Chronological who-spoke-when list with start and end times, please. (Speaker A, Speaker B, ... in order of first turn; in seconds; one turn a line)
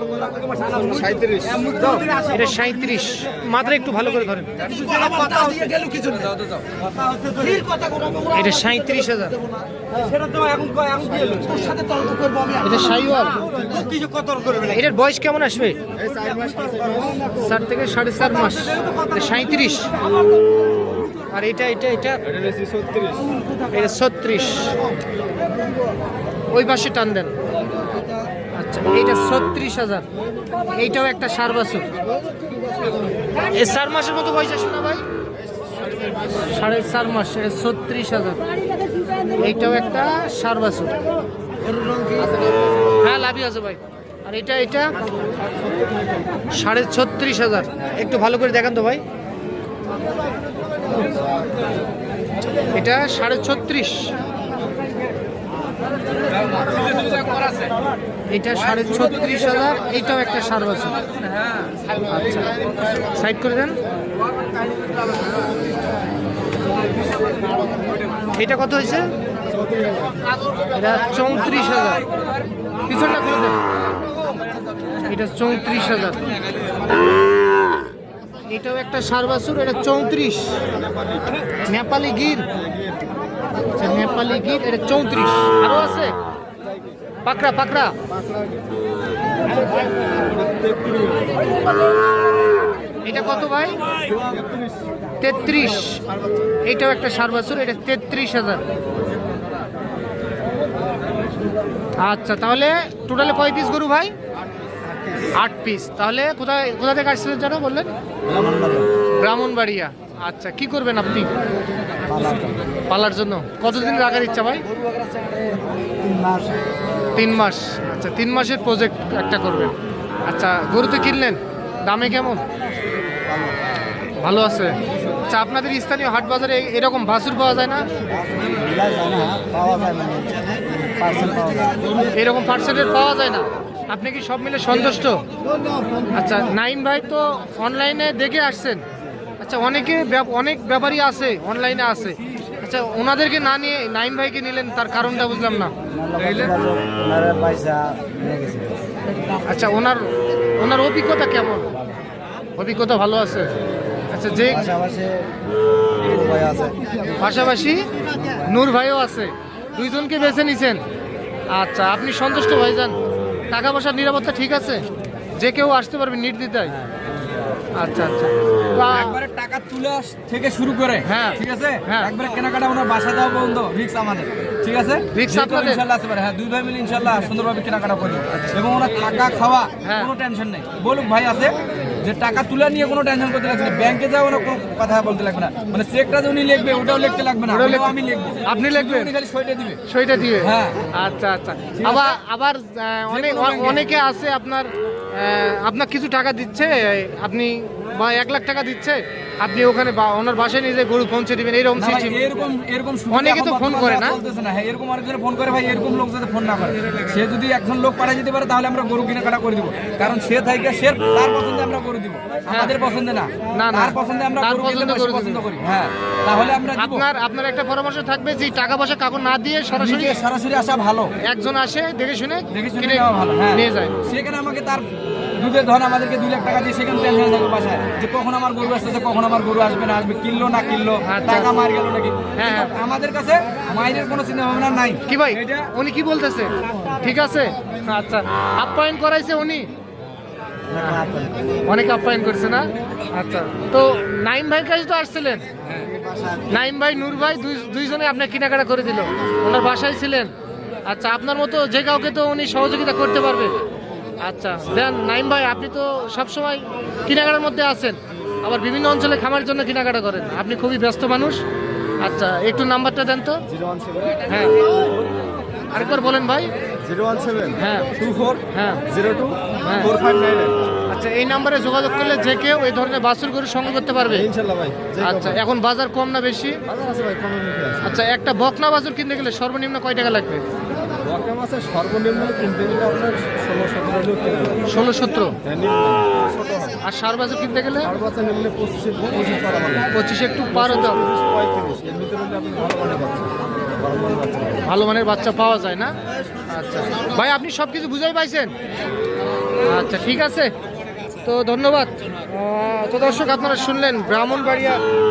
Speaker A: 0.8-1.7
Speaker B: 1.4-2.2
Speaker C: 2.3-4.6
Speaker B: 4.6-6.4
Speaker C: 8.3-9.4
Speaker B: 10.3-11.7
Speaker C: 12.6-13.4
Speaker C: 14.6-15.8
Speaker A: 15.9-17.2
Speaker C: 17.4-19.9
Speaker C: 21.3-22.2
Speaker A: 22.3-23.3
Speaker C: 23.7-24.8
Speaker C: 26.5-27.3
Speaker C: 28.6-30.1
Speaker C: 30.7-31.9
Speaker C: 33.5-35.0
Speaker C: 36.3-38.4
Speaker C: 39.4-41.0
Speaker C: 43.0-45.0
Speaker C: 46.5-49.0
Speaker C: 52.7-54.1
Speaker B: 56.3-57.7
Speaker C: 58.3-61.0
Speaker B: 61.1-61.7
Speaker C: 62.1-63.8
Speaker C: 68.3-69.1
Speaker A: 69.7-69.9
Speaker C: 70.7-72.0
Speaker C: 72.9-73.6
Speaker C: 75.0-76.2
Speaker C: 78.5-80.6
Speaker A: 80.8-81.2
Speaker C: 81.7-82.5
Speaker C: 83.7-86.2
Speaker C: 87.2-87.9
Speaker A: 90.1-91.5
Speaker C: 93.0-93.8
Speaker A: 94.0-94.7
Speaker C: 95.2-96.0
Speaker C: 96.6-98.6
Speaker C: 102.0-104.1
Speaker C: 105.3-107.9
Speaker A: 108.2-108.9
Speaker C: 109.1-111.3
Speaker A: 112.0-112.5
Speaker C: 112.9-114.6
Speaker A: 115.2-116.6
Speaker C: 117.1-119.7
Speaker C: 120.2-122.4
Speaker C: 124.2-124.8
Speaker C: 125.3-127.9
Speaker A: 128.2-132.0
Speaker C: 132.1-135.2
Speaker C: 136.1-138.8
Speaker C: 139.4-145.7
Speaker A: 145.9-148.8
Speaker B: 146.2-146.5
Speaker C: 149.4-151.7
Speaker C: 152.6-153.5
Speaker C: 154.1-154.8
Speaker A: 154.5-155.3
Speaker A: 156.0-156.8
Speaker C: 157.2-160.8
Speaker C: 161.5-162.9
Speaker C: 163.5-164.8
Speaker C: 165.4-166.8
Speaker C: 167.8-169.2
Speaker B: 168.9-189.8
Speaker C: 171.0-172.1
Speaker C: 175.1-175.8
Speaker C: 179.8-180.1
Speaker C: 187.5-189.1
Speaker C: 189.9-202.2
Speaker B: 190.4-190.9
Speaker B: 191.7-192.2
Speaker B: 193.1-193.8
Speaker B: 201.8-217.1
Speaker C: 203.1-204.2
Speaker C: 212.5-212.8
Speaker C: 213.5-215.5
Speaker C: 216.5-220.2
Speaker B: 219.7-221.1
Speaker C: 221.2-223.9
Speaker B: 222.5-235.7
Speaker C: 231.0-231.5
Speaker C: 232.3-232.7
Speaker C: 235.1-239.7
Speaker A: 240.7-241.4
Speaker C: 241.7-245.4
Speaker A: 245.9-246.5
Speaker C: 246.5-250.3
Speaker C: 250.8-253.6
Speaker C: 254.2-261.4
Speaker C: 262.0-263.4
Speaker A: 263.5-264.2
Speaker C: 264.2-264.6
Speaker C: 265.7-266.5
Speaker A: 266.8-267.6
Speaker C: 267.6-267.9
Speaker B: 268.0-268.4
Speaker C: 268.5-268.8
Speaker A: 268.9-270.5
Speaker C: 269.6-269.9
Speaker B: 269.8-270.5
Speaker C: 270.9-274.3
Speaker A: 274.1-275.4
Speaker C: 275.0-276.6
Speaker A: 276.7-277.9
Speaker C: 277.8-280.4
Speaker A: 281.0-284.6
Speaker C: 284.6-285.4
Speaker A: 285.4-286.8
Speaker C: 286.8-288.0
Speaker A: 287.9-289.9
Speaker C: 289.9-291.0
Speaker A: 290.5-294.6
Speaker C: 294.6-295.9
Speaker C: 296.5-298.5
Speaker C: 299.6-300.5
Speaker C: 301.2-304.8